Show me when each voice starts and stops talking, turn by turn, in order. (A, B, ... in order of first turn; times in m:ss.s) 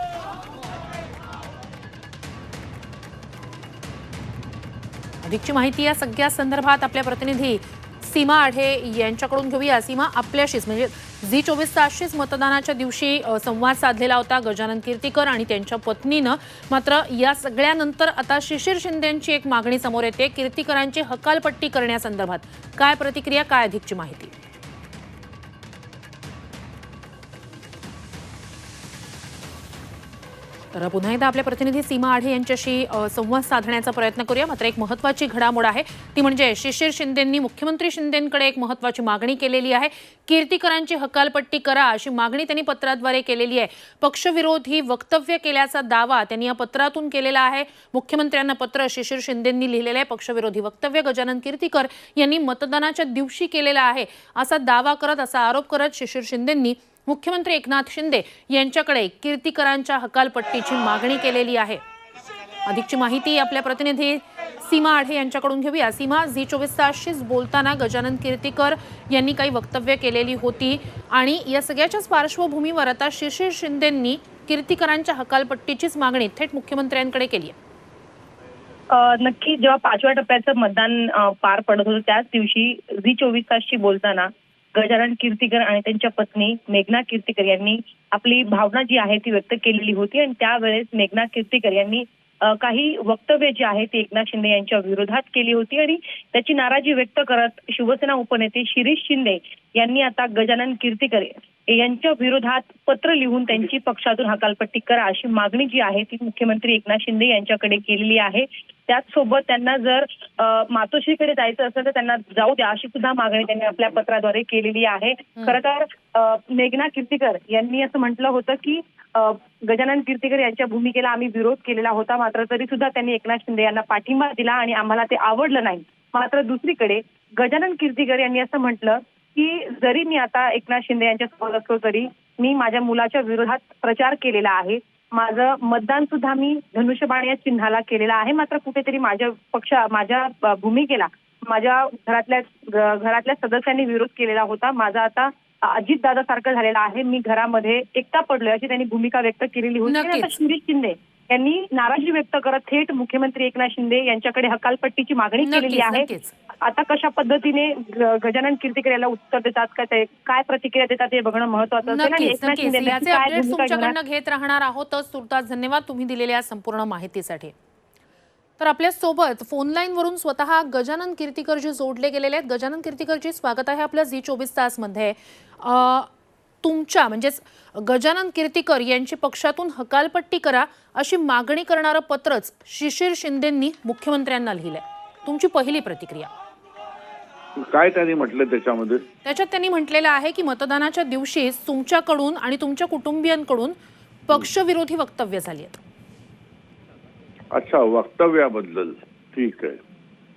0:05.2-0:24.3 A
0:30.7-1:01.8 A
1:02.6-1:17.5 A
1:18.9-2:36.1 B
2:29.9-2:30.3 A
2:35.4-2:36.3 A
2:36.6-2:44.0 B
2:41.8-2:47.5 A
2:48.6-2:56.1 A
2:56.6-3:06.3 A
3:07.6-3:09.0 C
3:09.2-3:13.7 A
3:14.3-3:15.8 A
3:17.5-3:19.8 C